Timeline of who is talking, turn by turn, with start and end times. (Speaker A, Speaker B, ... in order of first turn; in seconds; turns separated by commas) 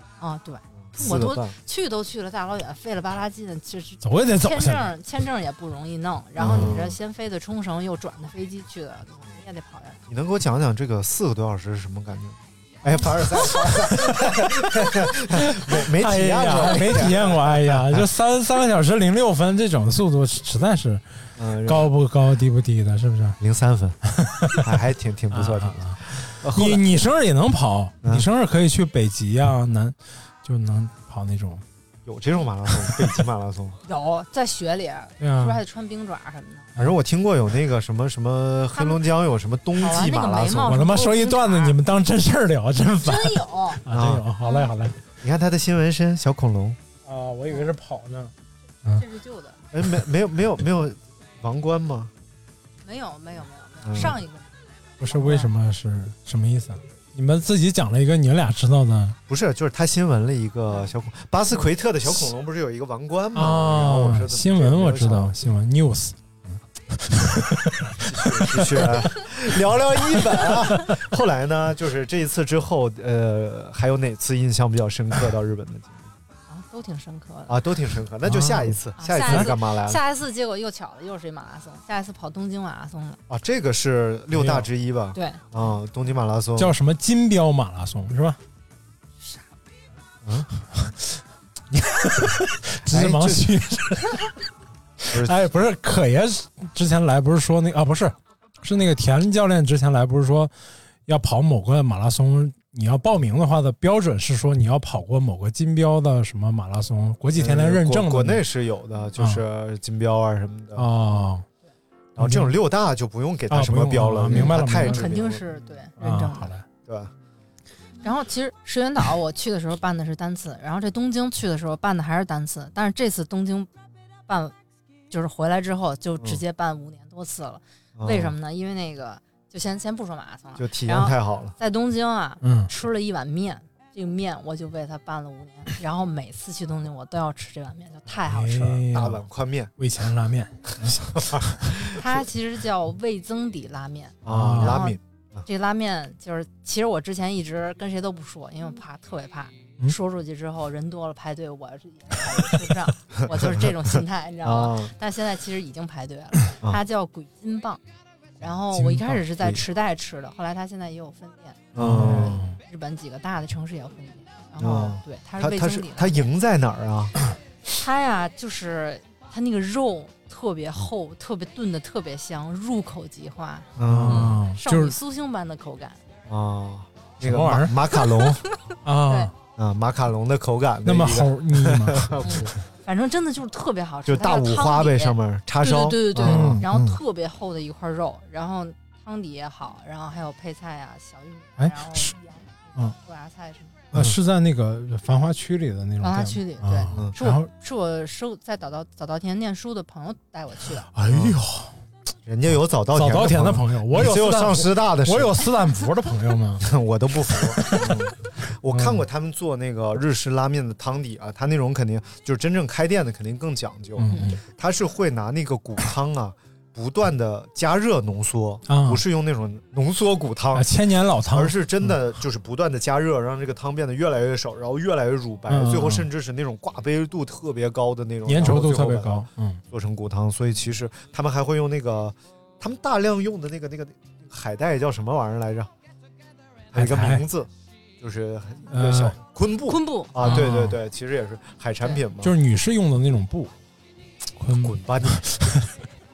Speaker A: 0.2-10.0, Speaker B: 0.8-1.5, Speaker C: 4.0-4.9, Speaker B: 6.4-7.0, Speaker B: 10.1-18.1, Speaker C: 15.7-21.0, Speaker B: 21.4-21.9, Speaker C: 21.6-23.4, Speaker B: 23.4-24.0, Speaker C: 24.0-24.7, Speaker B: 24.6-26.8, Speaker C: 25.3-31.6, Speaker B: 32.0-33.8, Speaker C: 32.8-33.2, Speaker A: 33.9-36.7, Speaker C: 35.2-35.6, Speaker B: 36.8-40.8, Speaker A: 38.7-39.0, Speaker A: 39.8-41.8, Speaker C: 40.7-45.0, Speaker A: 43.0-43.8, Speaker B: 43.9-44.2, Speaker A: 44.4-44.7, Speaker B: 45.2-46.8, Speaker C: 47.0-48.3, Speaker A: 47.5-47.7, Speaker A: 48.9-49.6, Speaker B: 49.7-52.1, Speaker A: 52.8-55.5, Speaker B: 53.8-54.1, Speaker C: 55.0-59.2, Speaker B: 59.3-65.3, Speaker C: 63.3-68.9, Speaker B: 68.0-76.1, Speaker C: 70.4-70.9, Speaker A: 76.5-77.6, Speaker B: 77.5-80.0, Speaker C: 78.2-79.5, Speaker A: 79.0-83.2, Speaker B: 83.3-86.7, Speaker C: 84.3-84.7, Speaker A: 85.1-85.5, Speaker C: 86.6-88.4, Speaker C: 91.7-94.3, Speaker B: 92.9-93.6, Speaker C: 95.0-100.5, Speaker B: 95.1-95.4, Speaker C: 101.1-108.5, Speaker B: 107.3-110.9, Speaker C: 109.2-109.4, Speaker C: 110.8-111.4, Speaker B: 112.1-115.5, Speaker C: 112.2-112.5, Speaker C: 113.5-115.2, Speaker A: 114.3-116.5, Speaker C: 116.0-116.7, Speaker B: 116.8-117.1, Speaker A: 118.0-123.7, Speaker A: 124.3-124.5, Speaker A: 125.1-138.8, Speaker B: 128.0-128.3, Speaker B: 130.6-131.6, Speaker C: 132.4-132.7, Speaker C: 138.2-139.2, Speaker B: 138.9-139.7, Speaker C: 139.8-141.9, Speaker B: 140.8-142.0, Speaker A: 141.9-157.8, Speaker B: 144.2-145.4, Speaker C: 144.3-144.8, Speaker B: 153.2-154.9, Speaker A: 158.4-166.3, Speaker C: 158.7-159.2, Speaker B: 161.7-162.4, Speaker C: 161.8-162.6, Speaker B: 164.6-167.2, Speaker A: 167.7-176.0, Speaker B: 173.8-174.4, Speaker C: 173.9-174.9, Speaker B: 176.3-178.4, Speaker C: 177.2-177.8, Speaker A: 178.2-178.6, Speaker C: 178.8-179.3, Speaker B: 179.6-182.5, Speaker C: 180.8-182.3, Speaker A: 182.2-193.8, Speaker B: 184.1-186.6, Speaker C: 186.2-187.0, Speaker C: 191.6-192.1, Speaker B: 193.9-194.2, Speaker C: 193.9-197.5, Speaker A: 196.0-200.9, Speaker C: 200.9-201.7, Speaker B: 201.1-201.4, Speaker B: 202.2-205.5, Speaker C: 202.9-206.7, Speaker B: 206.6-220.7, Speaker C: 207.4-208.1, Speaker C: 208.7-209.0, Speaker C: 214.0-214.4, Speaker A: 214.1-214.3, Speaker C: 218.7-219.0, Speaker C: 220.5-222.0, Speaker B: 221.3-235.7, Speaker C: 225.5-226.1, Speaker C: 228.2-229.6, Speaker B: 236.7-242.3, Speaker C: 236.7-237.2, Speaker C: 238.7-239.2, Speaker A: 239.7-240.5, Speaker C: 240.2-240.8, Speaker C: 242.2-243.5, Speaker C: 244.4-245.7, Speaker B: 244.6-245.2